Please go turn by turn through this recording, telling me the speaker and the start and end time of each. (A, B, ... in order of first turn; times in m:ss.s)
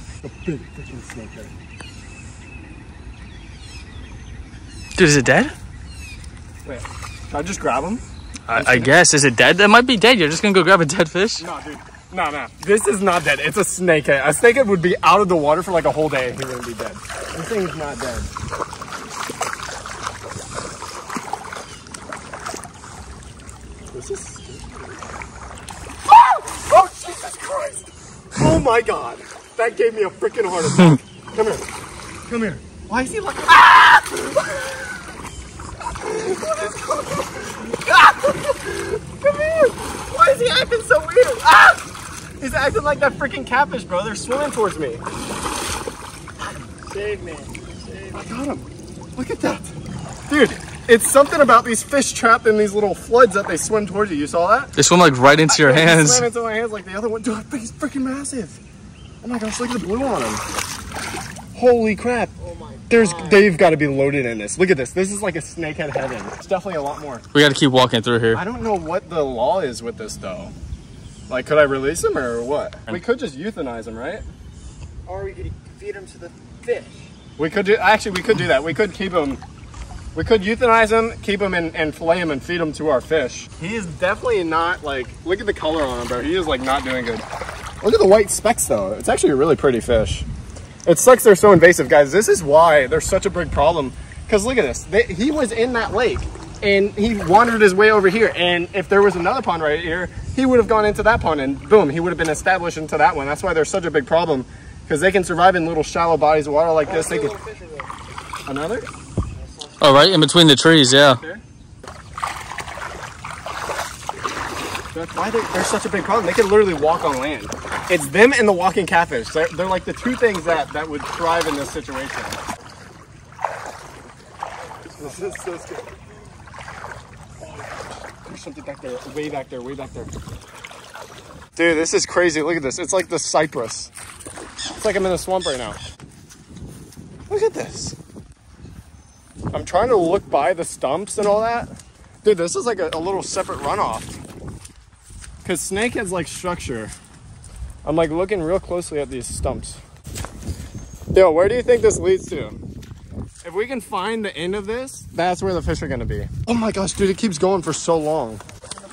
0:00.2-0:01.5 A
0:05.0-0:05.6 B
0:06.6-0:08.9 A
0:08.5-0:11.4 B
0:11.4-0:18.3 A
0:23.9-0:25.0 A
0:26.1-0:31.6 A
0:32.3-0:35.1 A
0:35.9-0:41.9 A
0:42.4-0:45.0 A
0:46.9-0:48.2 C
0:48.1-0:49.7 A
0:50.3-0:54.7 A
0:54.8-0:56.3 B
0:55.5-0:58.6 A
0:59.2-1:00.4 A
1:01.6-1:02.3 A
1:02.5-1:03.4 C
1:02.9-1:07.2 A
1:07.3-1:08.4 B
1:08.3-1:10.5 A
1:11.3-1:14.2 A
1:15.1-1:17.1 C
1:17.4-1:19.4 A
1:20.2-1:27.3 A
1:27.8-1:30.3 A
1:30.9-1:47.4 A
1:46.9-1:47.9 C
1:48.5-1:48.9 A
1:49.8-1:51.2 B
1:54.9-2:02.4 A
2:05.0-2:05.9 A
2:08.2-2:10.1 A
2:11.6-2:13.9 A
2:14.8-2:15.8 A
2:17.3-2:18.0 A
2:19.5-2:21.7 A
2:22.2-2:24.2 A
2:25.4-2:26.9 A
2:27.8-2:29.8 A
2:31.1-2:32.6 A
2:33.4-2:38.4 A